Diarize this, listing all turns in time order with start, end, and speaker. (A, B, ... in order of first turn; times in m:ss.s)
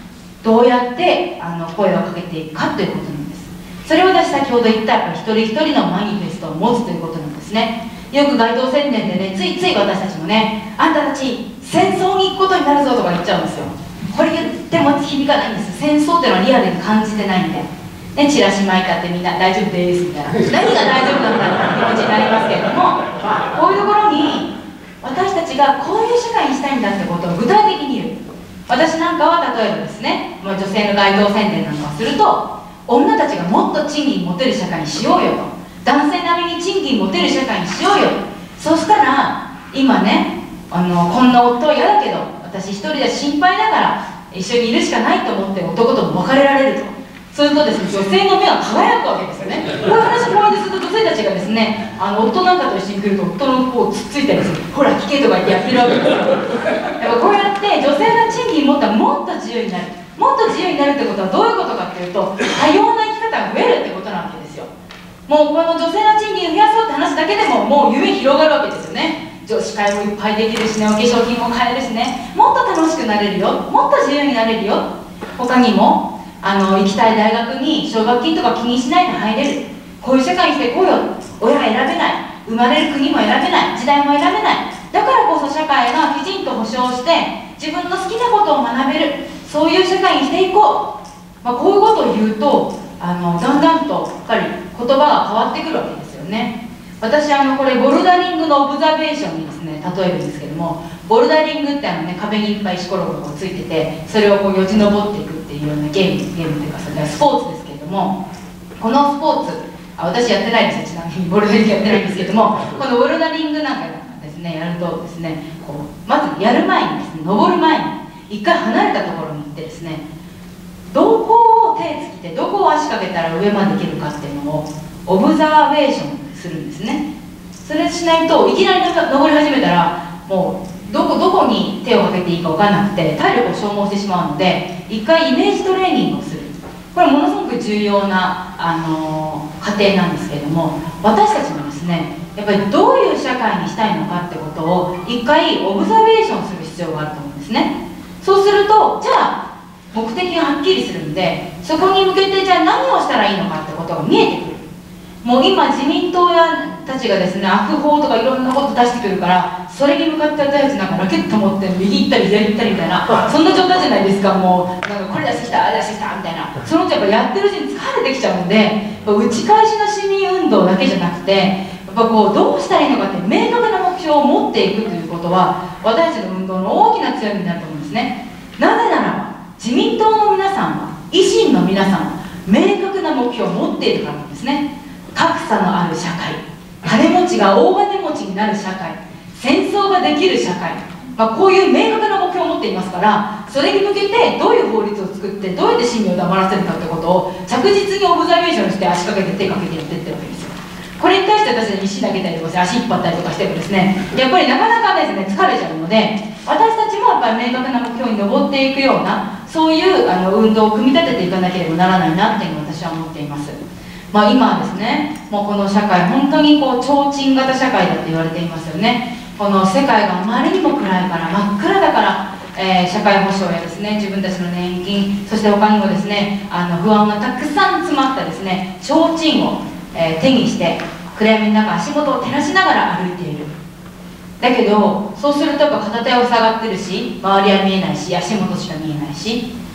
0:00.4-1:04.7 A
1:05.3-1:30.9 A
1:31.4-1:48.2 A
1:48.8-2:00.0 A
2:00.9-2:07.0 A
2:07.6-2:29.4 A
2:29.9-2:34.6 A
2:35.2-3:33.6 A
3:34.1-3:53.5 A
3:54.4-3:59.4 A